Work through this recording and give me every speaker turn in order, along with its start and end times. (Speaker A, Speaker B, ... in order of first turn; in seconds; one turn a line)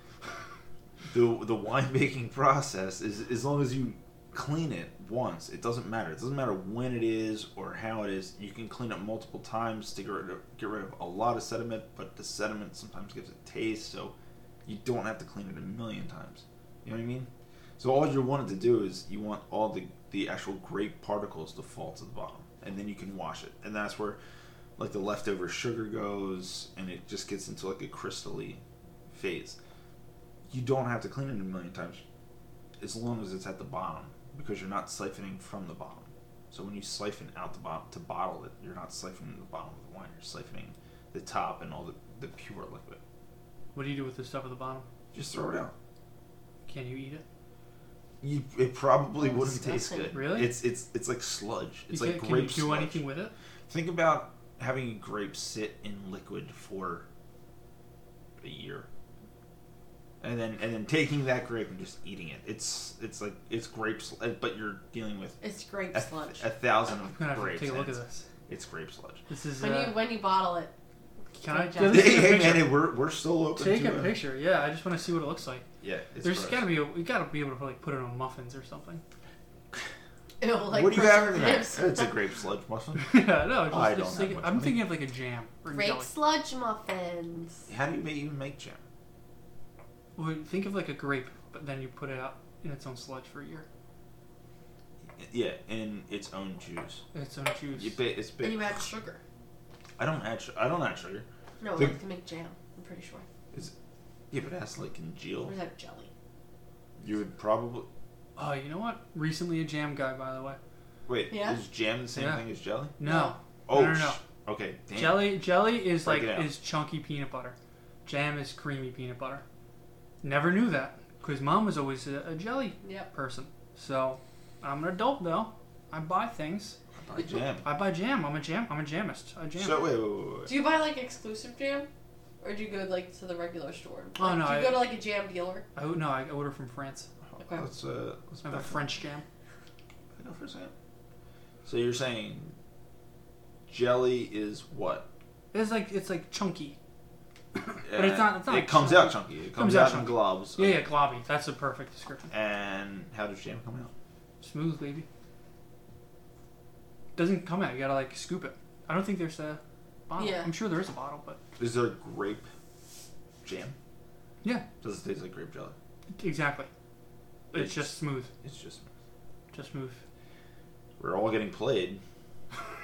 Speaker A: 1.1-14.1
Speaker A: 14.7-24.2
Speaker A: 24.8-29.6
Speaker A: 30.5-32.0
Speaker A: 32.8-43.0
Speaker B: 43.7-44.9
Speaker A: 45.1-45.7
Speaker B: 46.7-47.2
Speaker A: 48.2-53.0
Speaker C: 49.2-50.1
Speaker B: 50.1-50.5
Speaker B: 51.9-53.3
Speaker A: 53.7-57.0
Speaker A: 58.4-58.9
Speaker A: 60.2-65.4
Speaker C: 65.4-66.5
Speaker A: 65.9-69.2
Speaker B: 67.1-68.3
Speaker B: 69.3-70.0
Speaker C: 69.6-70.7
Speaker C: 71.4-72.5
Speaker B: 71.4-72.8
Speaker A: 71.8-74.2
Speaker B: 73.6-75.7
Speaker A: 75.8-76.7
Speaker B: 76.2-79.0
Speaker C: 80.4-82.1
Speaker A: 80.7-84.9
Speaker B: 83.0-86.1
Speaker C: 85.7-87.7
Speaker A: 87.7-88.8
Speaker B: 90.2-93.7
Speaker A: 95.2-97.0
Speaker B: 97.1-98.0
Speaker A: 97.7-98.8
Speaker C: 98.4-99.2
Speaker A: 100.0-101.3
Speaker C: 101.6-103.3
Speaker A: 104.3-105.5
Speaker C: 105.5-106.1
Speaker A: 107.0-107.9
Speaker B: 108.4-110.6
Speaker A: 111.1-113.0
Speaker C: 111.3-111.6
Speaker B: 112.2-112.5
Speaker B: 113.0-114.2
Speaker C: 113.0-113.4
Speaker A: 113.7-116.5
Speaker B: 114.9-119.4
Speaker B: 120.2-126.8
Speaker C: 122.8-123.1
Speaker A: 127.0-127.7
Speaker B: 127.6-129.9
Speaker A: 129.6-130.5
Speaker C: 130.5-131.9
Speaker C: 132.4-135.7
Speaker B: 134.2-134.9
Speaker B: 135.8-137.1
Speaker A: 137.3-138.9
Speaker C: 137.4-137.7
Speaker B: 138.4-139.2
Speaker A: 140.2-140.7
Speaker A: 141.7-142.6
Speaker A: 143.7-145.1
Speaker B: 145.5-146.8
Speaker B: 147.5-152.3
Speaker A: 147.8-150.9
Speaker A: 152.3-153.9
Speaker B: 154.4-155.1
Speaker B: 157.2-161.4
Speaker C: 160.2-160.5
Speaker A: 161.6-162.5
Speaker A: 163.4-163.8
Speaker A: 164.8-165.8
Speaker B: 166.2-166.7
Speaker B: 167.5-168.3
Speaker A: 167.5-168.9
Speaker B: 169.5-170.0
Speaker A: 171.0-172.0